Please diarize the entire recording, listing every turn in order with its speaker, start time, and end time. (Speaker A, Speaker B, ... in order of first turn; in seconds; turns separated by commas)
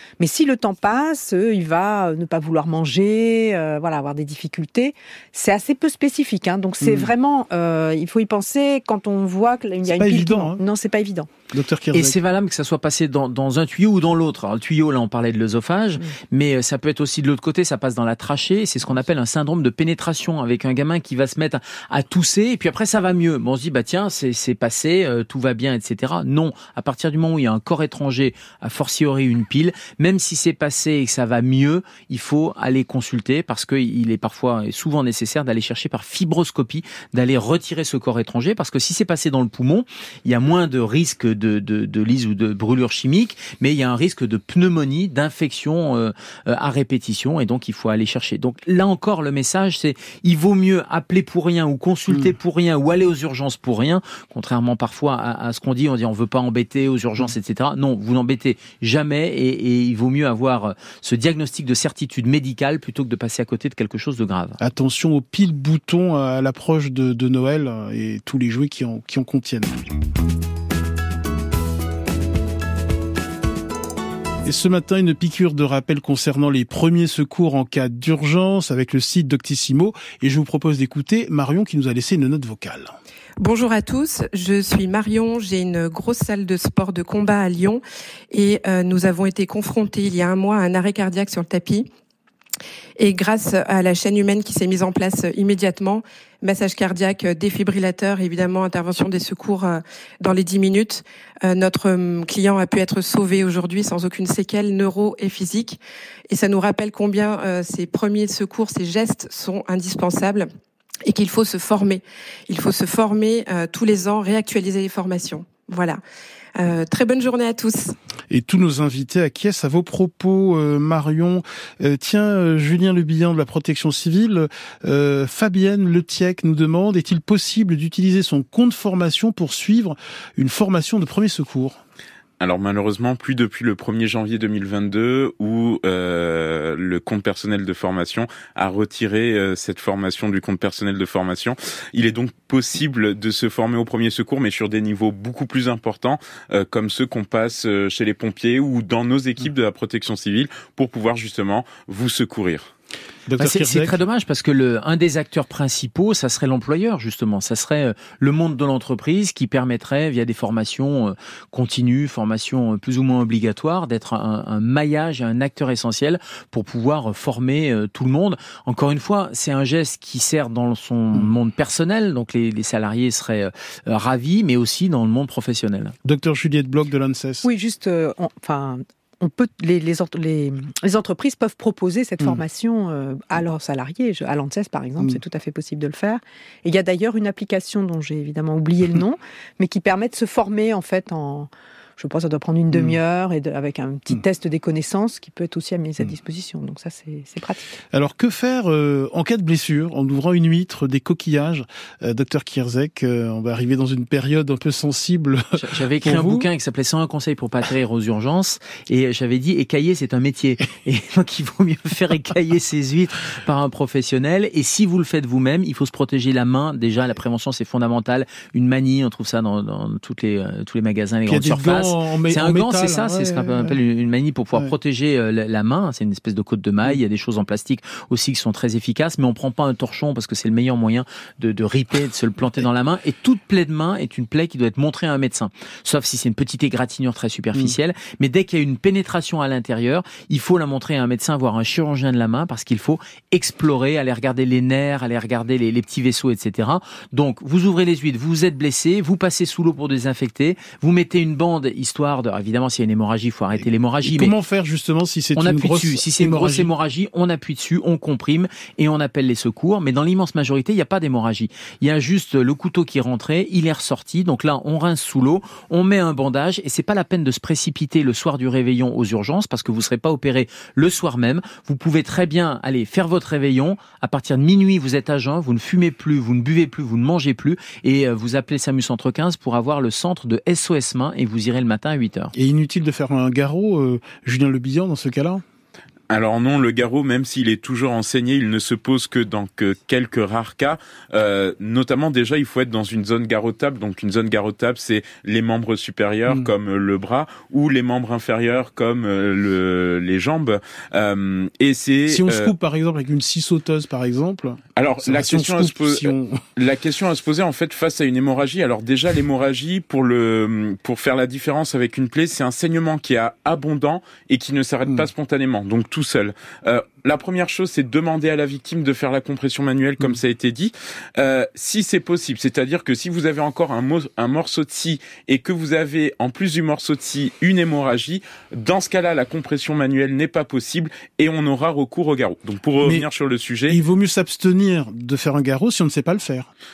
Speaker A: 0.2-11.3, Speaker B: 6.8-7.1, Speaker B: 9.8-10.6, Speaker B: 11.5-12.2, Speaker C: 11.9-64.6, Speaker B: 64.6-69.8, Speaker B: 74.4-82.9, Speaker D: 83.4-91.9, Speaker D: 93.0-110.5, Speaker D: 111.1-116.0, Speaker D: 116.6-117.9, Speaker B: 118.3-131.8, Speaker E: 132.4-152.7, Speaker B: 153.3-154.0, Speaker C: 153.4-175.9, Speaker B: 176.0-177.5, Speaker A: 177.4-197.8, Speaker B: 192.7-193.0, Speaker B: 197.9-206.5, Speaker C: 205.6-254.3, Speaker B: 221.2-223.8, Speaker B: 253.6-256.7, Speaker C: 255.3-282.3, Speaker B: 282.4-285.4, Speaker E: 286.1-302.5, Speaker B: 302.1-306.4, Speaker E: 304.8-333.8, Speaker B: 333.7-336.5